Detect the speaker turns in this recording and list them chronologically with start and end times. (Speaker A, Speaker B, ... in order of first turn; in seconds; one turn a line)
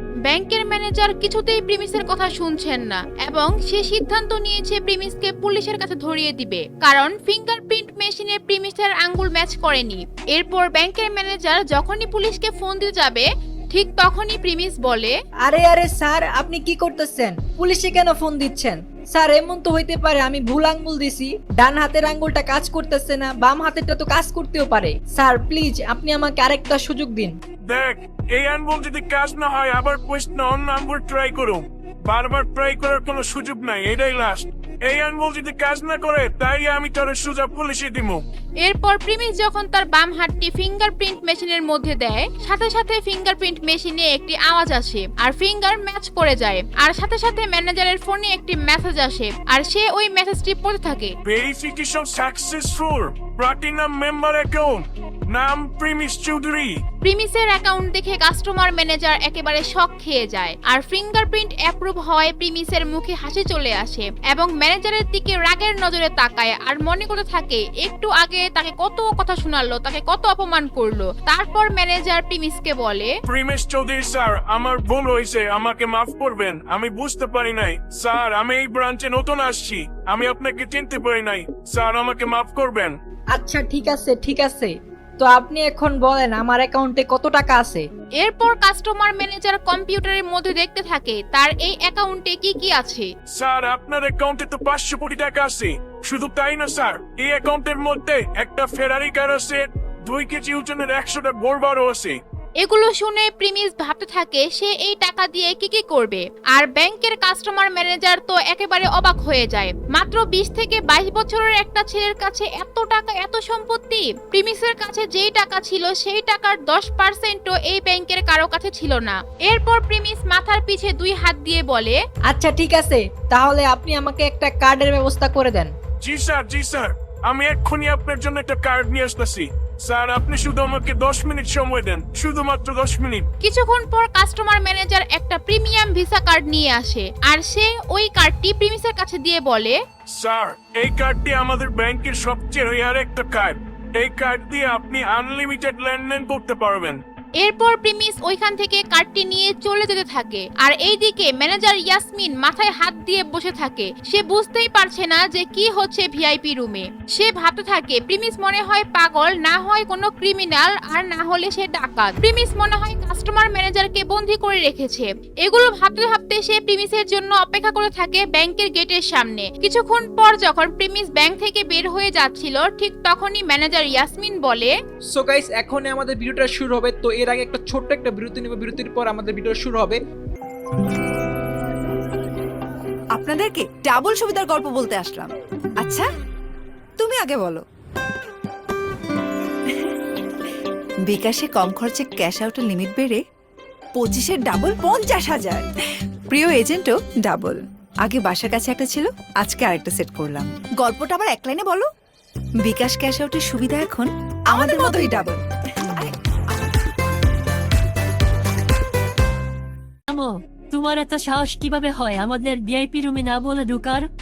Speaker A: 0.2-15.1
Speaker B: 15.4-27.4
Speaker C: 27.7-38.2
Speaker A: 38.6-51.1
Speaker C: 51.2-56.8
Speaker A: 57.0-73.1
Speaker C: 73.2-83.0
Speaker B: 83.3-87.8
Speaker A: 88.2-93.1
Speaker C: 93.3-102.2
Speaker A: 102.6-122.0
Speaker B: 122.3-125.7
Speaker C: 126.0-133.3
Speaker A: 133.4-139.8
Speaker C: 140.1-147.0
Speaker A: 147.4-174.7
Speaker D: 175.1-180.0
Speaker E: 183.2-186.1
Speaker E: 187.0-187.6
Speaker E: 191.1-193.2
Speaker E: 193.9-195.7
Speaker E: 196.3-201.9
Speaker E: 202.6-205.4
Speaker F: 210.1-214.1